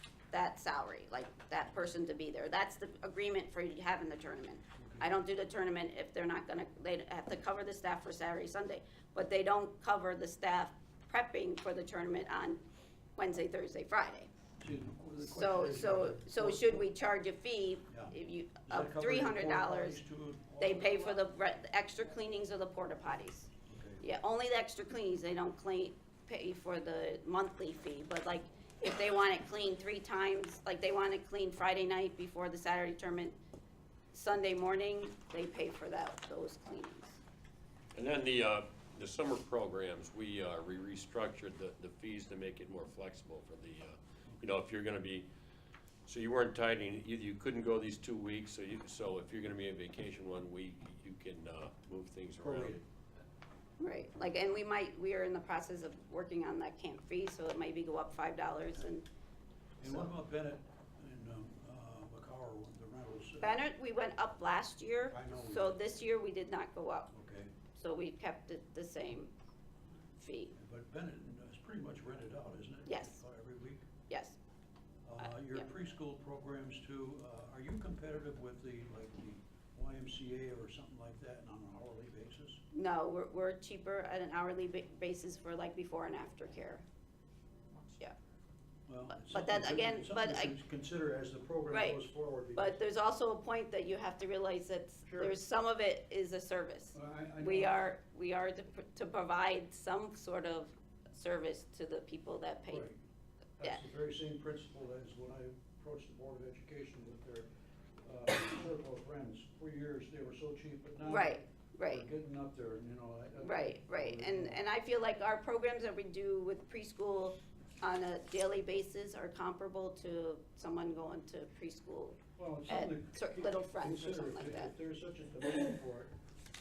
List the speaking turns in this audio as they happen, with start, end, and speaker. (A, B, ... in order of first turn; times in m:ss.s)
0:00.3-0:12.6 A
0:04.8-0:05.1 B
0:13.2-0:14.3 A
0:14.6-0:16.9 B
0:15.2-0:20.0 A
0:17.9-0:18.1 B
0:18.6-0:21.1 B
0:20.6-0:23.5 A
0:23.7-0:24.0 B
0:24.0-0:33.4 A
0:34.1-0:37.2 A
0:37.9-0:45.3 C
0:46.0-0:52.8 C
0:52.4-0:52.8 B
0:53.8-0:59.0 A
0:59.8-1:03.6 B
0:59.8-1:00.1 A
1:03.4-1:07.1 A
1:05.1-1:05.8 B
1:07.1-1:07.5 B
1:07.7-1:09.3 A
1:10.2-1:10.5 A
1:10.5-1:13.8 B
1:12.8-1:13.2 A
1:14.1-1:14.4 A
1:15.0-1:22.6 B
1:15.2-1:15.7 A
1:22.7-1:26.8 A
1:28.9-1:32.8 B
1:29.2-1:30.5 A
1:31.7-1:32.0 A
1:32.5-1:42.9 A
1:35.0-1:35.4 B
1:36.9-1:37.8 B
1:42.7-1:43.0 B
1:43.6-1:47.5 B
1:48.0-1:54.6 B
1:51.0-1:52.0 A
1:53.4-2:04.7 A
2:02.4-2:06.1 B